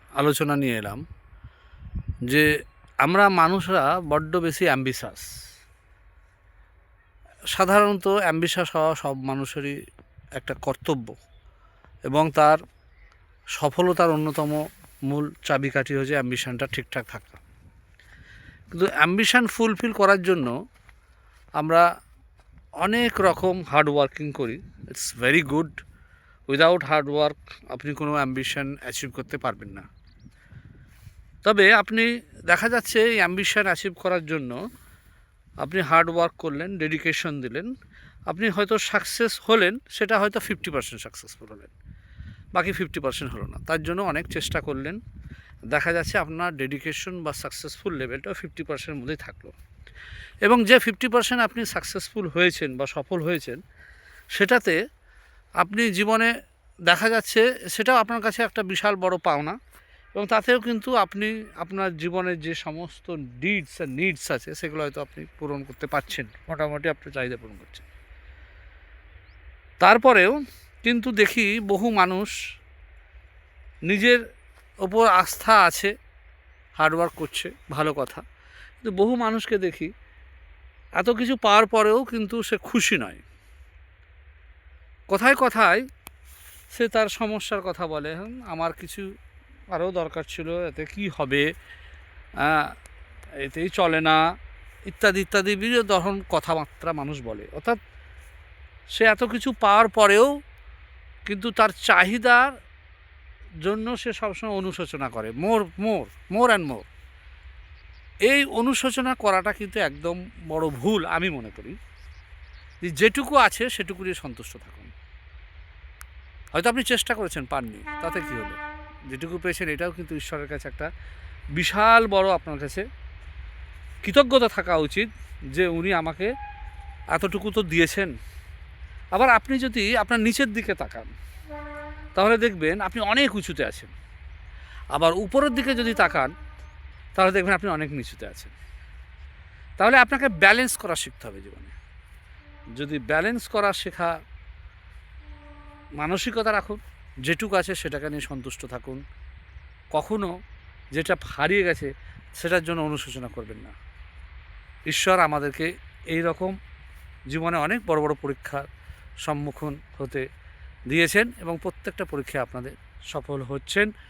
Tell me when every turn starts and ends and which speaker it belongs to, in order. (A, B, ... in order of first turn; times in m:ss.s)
0:00.2-0:01.0 A
0:03.0-0:05.2 A
0:07.5-0:09.8 A
0:10.4-0:11.1 A
0:12.1-0:12.6 A
0:13.6-0:17.4 A
0:18.7-0:20.5 A
0:22.8-0:25.8 A
0:26.5-0:29.8 A
0:31.4-0:34.6 A
0:35.6-0:37.7 A
0:38.3-0:41.7 A
0:42.5-0:45.0 A
0:45.7-0:49.5 A
0:50.4-0:53.6 A
0:54.3-0:54.8 A
0:55.6-0:56.3 A
0:56.9-0:59.6 A
1:00.1-1:07.8 A
1:09.8-1:12.3 A
1:13.9-1:14.2 A
1:14.8-1:15.9 A
1:16.8-1:18.2 A
1:18.8-1:19.9 A
1:21.0-1:23.2 A
1:25.1-1:25.8 A
1:26.7-1:29.0 A
1:29.7-1:31.4 A
1:32.4-1:32.7 A
1:33.4-1:34.2 A
1:34.9-1:37.8 A
1:38.9-1:40.3 A
1:41.2-1:42.5 A
1:43.6-1:46.8 A
1:48.3-1:51.8 A
1:52.8-1:54.9 A
1:56.5-1:58.6 A
1:59.1-2:00.9 A
2:01.6-2:02.8 A
2:04.0-2:06.3 A
2:07.1-2:08.1 A
2:09.1-2:11.1 A
2:12.2-2:13.9 A
2:14.9-2:16.3 A
2:17.2-2:18.5 A
2:19.8-2:21.7 A
2:22.8-2:24.1 A
2:26.0-2:29.0 A
2:29.9-2:30.3 A
2:30.9-2:33.7 A
2:34.9-2:36.5 A
2:37.3-2:38.6 A
2:39.2-2:40.2 A
2:40.9-2:43.9 A